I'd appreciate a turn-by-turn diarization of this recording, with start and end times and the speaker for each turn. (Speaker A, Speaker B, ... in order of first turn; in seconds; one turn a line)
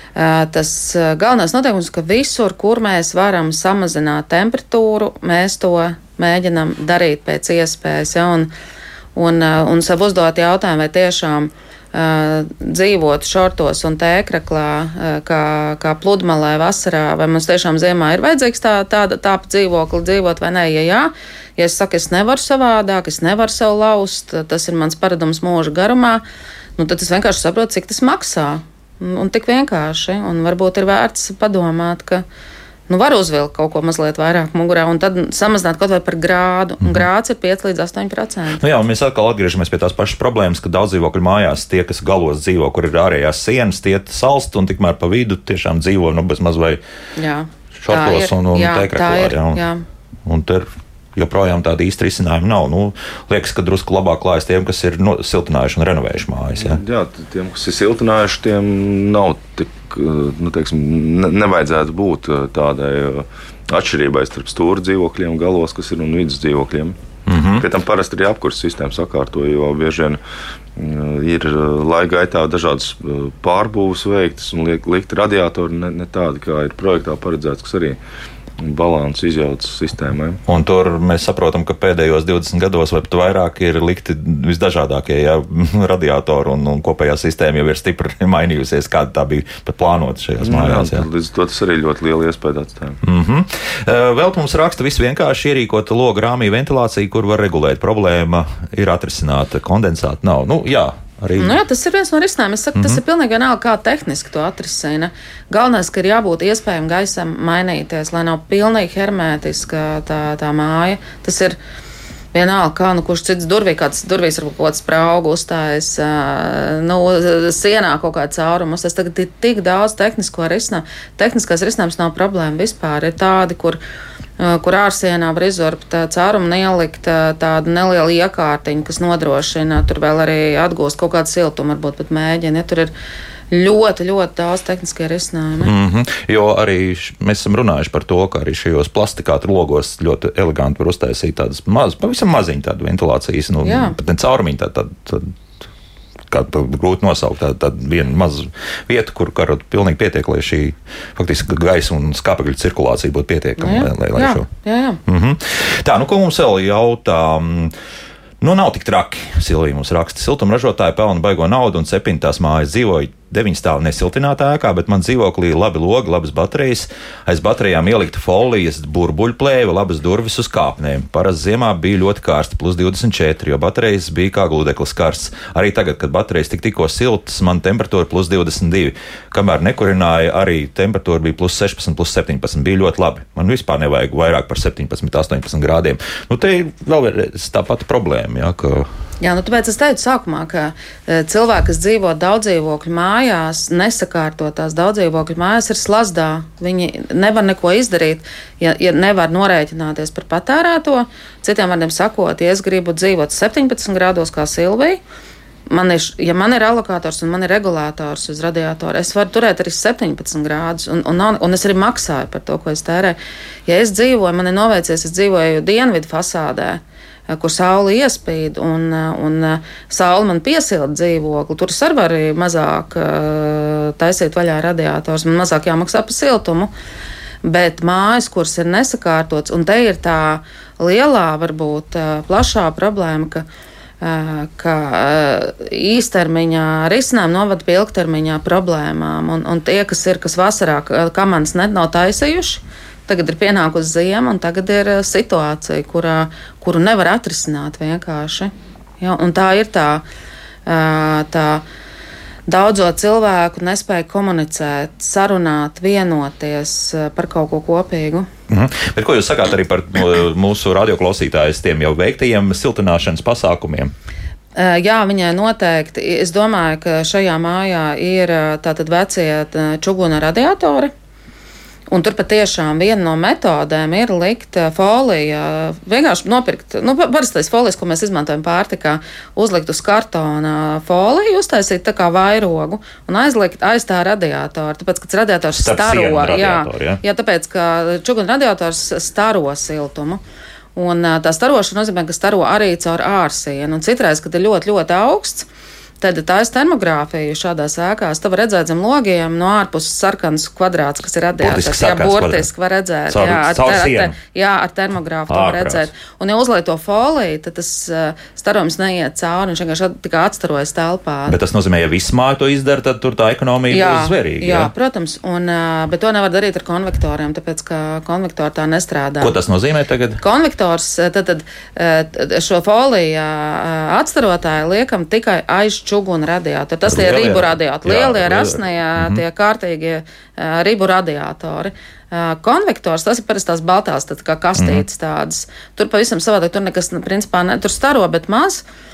Speaker A: 0.1-8.5
Speaker A: 9.1-26.2
Speaker A: 26.8-32.2
Speaker A: 32.9-38.6
Speaker B: 38.6-46.8
Speaker A: 47.2-49.8
Speaker B: 47.8-49.6
Speaker B: 50.2-56.8
Speaker C: 56.6-67.0
Speaker B: 67.2-67.6
Speaker C: 67.6-70.2
Speaker C: 70.8-78.0
Speaker C: 78.6-80.4
Speaker B: 80.5-91.0
Speaker C: 90.4-93.0
Speaker B: 93.0-101.6
Speaker A: 101.4-111.6
Speaker A: 112.3-123.8
Speaker A: 124.4-132.9
Speaker A: 133.5-135.7
Speaker B: 135.6-145.3
Speaker A: 143.6-144.0
Speaker B: 146.3-154.5
Speaker A: 153.6-155.0
Speaker B: 155.1-157.7
Speaker B: 158.4-188.9
Speaker A: 189.2-205.0
Speaker A: 205.7-226.7
Speaker A: 227.4-233.5
Speaker A: 234.0-250.0
Speaker A: 250.7-251.6
Speaker A: 252.5-258.3
Speaker B: 258.5-263.9
Speaker A: 264.6-270.9
Speaker A: 271.9-290.2
Speaker B: 285.5-287.0
Speaker A: 290.7-295.5
Speaker A: 296.0-311.4
Speaker B: 301.4-302.5
Speaker B: 303.1-304.1
Speaker B: 305.3-305.9
Speaker B: 311.3-314.7
Speaker A: 313.7-319.3
Speaker B: 319.2-320.2
Speaker A: 320.2-338.6
Speaker B: 326.9-329.2
Speaker B: 334.6-334.8